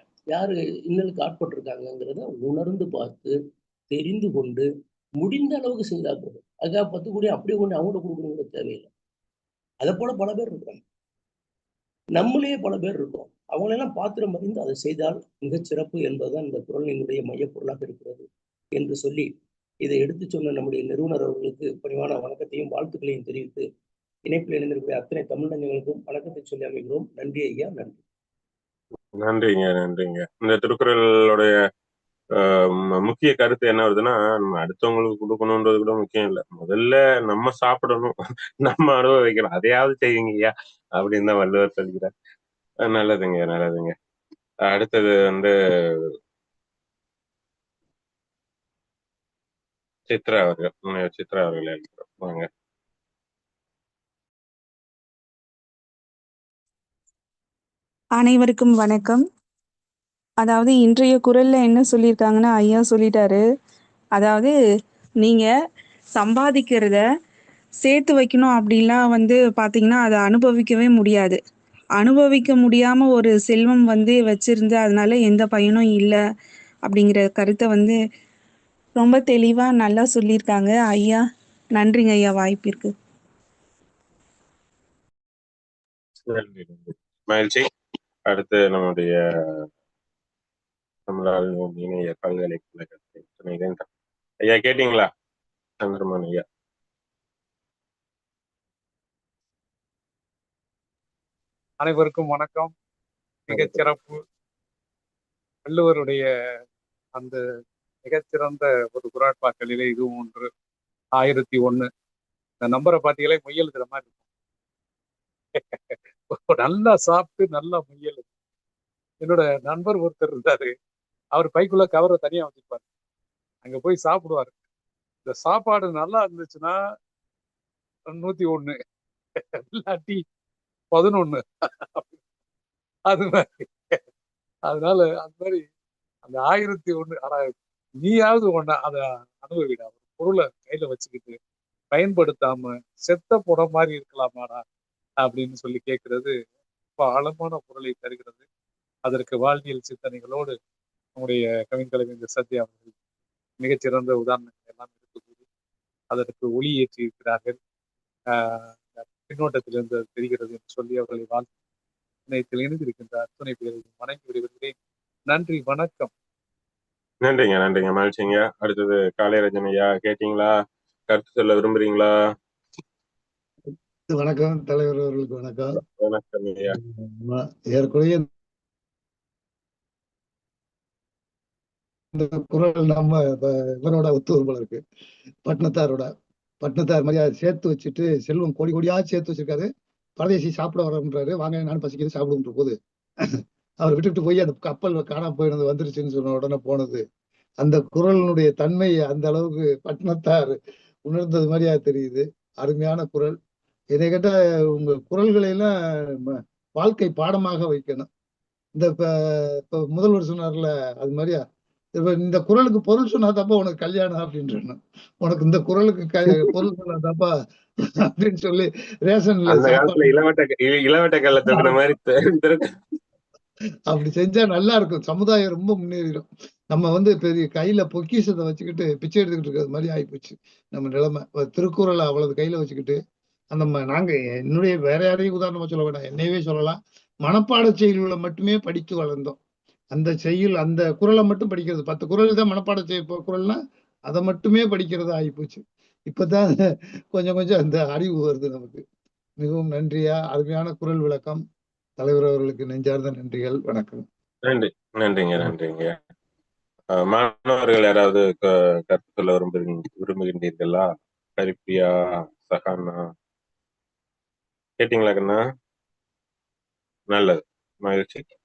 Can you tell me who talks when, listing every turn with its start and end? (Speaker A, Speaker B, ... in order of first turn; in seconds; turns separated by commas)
Speaker A: 0.3-3.4, Speaker A: 3.9-4.7, Speaker A: 5.2-8.9, Speaker A: 9.8-10.8, Speaker A: 12.2-19.3, Speaker A: 19.8-23.6, Speaker A: 24.3-28.0, Speaker B: 29.2-31.5, Speaker B: 32.4-42.1, Speaker B: 42.9-43.9, Speaker B: 44.7-45.5, Speaker B: 50.1-52.5, Speaker C: 58.2-59.2, Speaker C: 60.4-63.4, Speaker C: 64.2-64.5, Speaker C: 66.2-67.0, Speaker C: 67.8-71.4, Speaker C: 72.0-76.2, Speaker C: 76.9-78.0, Speaker C: 79.0-81.2, Speaker C: 81.8-82.9, Speaker B: 86.3-87.6, Speaker B: 88.3-89.2, Speaker B: 91.1-93.8, Speaker B: 94.4-95.1, Speaker B: 95.8-96.4, Speaker D: 101.8-102.7, Speaker B: 103.5-103.8, Speaker D: 103.5-104.2, Speaker D: 105.7-106.2, Speaker D: 108.1-110.5, Speaker D: 111.2-111.9, Speaker D: 112.6-114.2, Speaker D: 115.6-118.3, Speaker D: 119.2-120.7, Speaker D: 121.3-122.8, Speaker D: 123.6-124.6, Speaker D: 125.2-126.8, Speaker D: 128.1-128.8, Speaker D: 129.4-130.2, Speaker D: 130.9-132.2, Speaker D: 133.1-134.0, Speaker D: 134.7-135.7, Speaker D: 136.2-141.4, Speaker D: 141.9-144.6, Speaker D: 145.2-146.3, Speaker D: 147.0-148.4, Speaker D: 149.1-150.6, Speaker D: 151.2-152.9, Speaker D: 153.6-155.4, Speaker D: 156.1-157.6, Speaker D: 158.3-161.5, Speaker D: 162.3-164.7, Speaker D: 165.3-166.1, Speaker B: 167.2-170.5, Speaker B: 171.1-172.1, Speaker E: 174.1-175.8, Speaker B: 175.8-176.7, Speaker E: 176.7-178.3, Speaker E: 182.1-184.8, Speaker E: 185.4-186.1, Speaker E: 186.6-189.7, Speaker E: 190.2-192.8, Speaker E: 193.8-197.0, Speaker E: 197.6-203.4, Speaker E: 203.9-205.7, Speaker E: 206.2-208.1, Speaker E: 208.8-211.4, Speaker E: 212.0-217.3, Speaker E: 218.1-220.2, Speaker B: 219.5-222.6, Speaker E: 221.5-221.8, Speaker E: 223.9-233.0, Speaker E: 233.5-239.4, Speaker E: 239.9-246.5, Speaker E: 247.1-248.8, Speaker E: 249.4-251.4, Speaker E: 252.0-254.0, Speaker B: 254.5-255.9, Speaker B: 257.0-263.1, Speaker B: 264.8-265.4, Speaker B: 267.1-268.3